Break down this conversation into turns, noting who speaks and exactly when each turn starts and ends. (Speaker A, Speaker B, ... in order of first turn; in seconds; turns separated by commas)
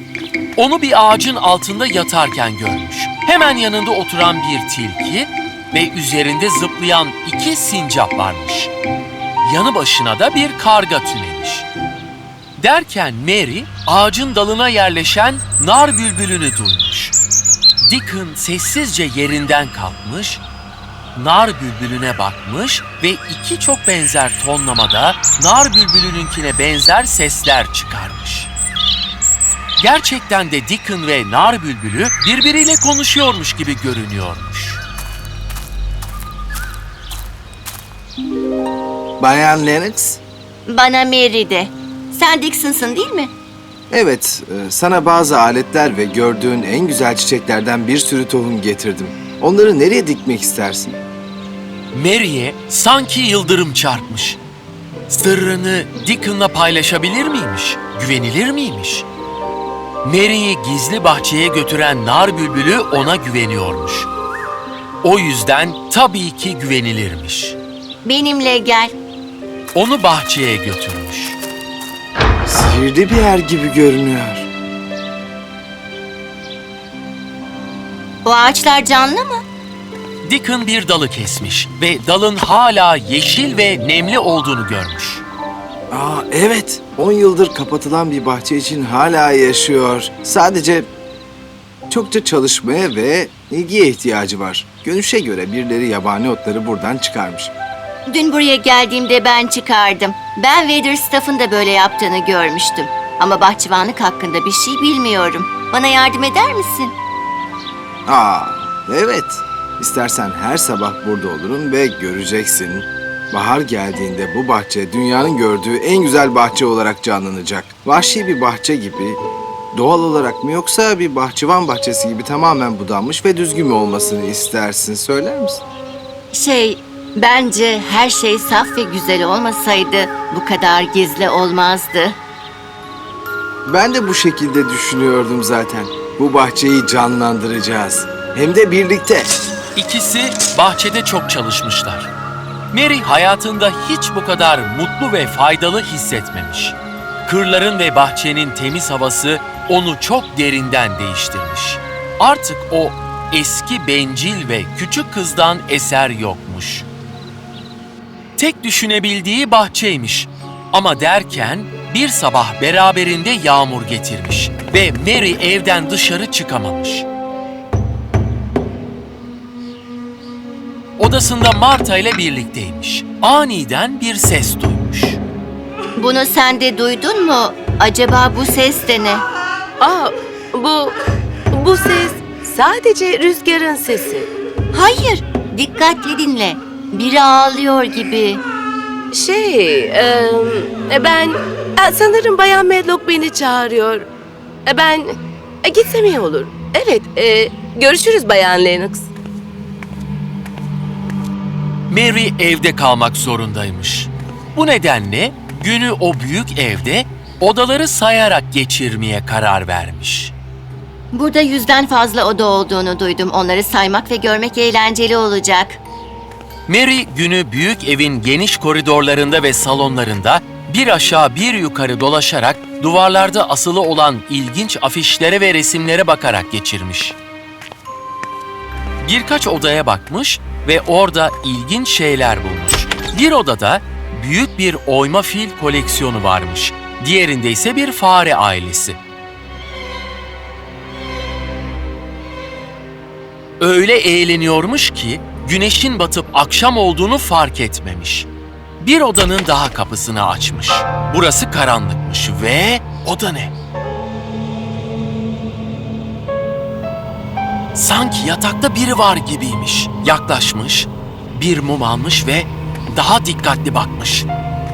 Speaker A: 0.6-8.7, Speaker A: 9.4-11.7, Speaker A: 12.6-17.1, Speaker A: 17.8-20.4, Speaker A: 21.1-28.5, Speaker A: 29.8-34.8, Speaker B: 39.2-40.2, Speaker C: 40.7-43.3, Speaker B: 43.9-51.0, Speaker A: 51.9-54.4, Speaker A: 55.1-59.1, Speaker A: 60.0-64.1, Speaker A: 65.0-67.6, Speaker C: 68.0-68.9, Speaker A: 69.7-71.4, Speaker B: 72.5-74.5, Speaker C: 78.2-79.4, Speaker A: 80.2-85.2, Speaker B: 85.9-90.9, Speaker B: 91.9-97.5, Speaker C: 98.1-106.9, Speaker B: 108.1-119.2, Speaker B: 119.7-125.6, Speaker C: 126.3-132.2, Speaker B: 133.7-139.3, Speaker A: 139.8-142.1, Speaker A: 142.7-156.9, Speaker A: 158.4-167.1, Speaker A: 171.0-175.2, Speaker C: 176.0-179.2, Speaker D: 180.6-180.9, Speaker D: 181.7-184.3, Speaker C: 184.7-188.4, Speaker D: 189.2-194.1, Speaker D: 194.7-195.1, Speaker D: 195.7-199.0, Speaker A: 201.9-210.3, Speaker C: 211.1-215.8, Speaker A: 216.7-227.2, Speaker A: 229.0-239.0, Speaker A: 243.6-248.3, Speaker A: 248.8-253.5, Speaker A: 257.8-264.3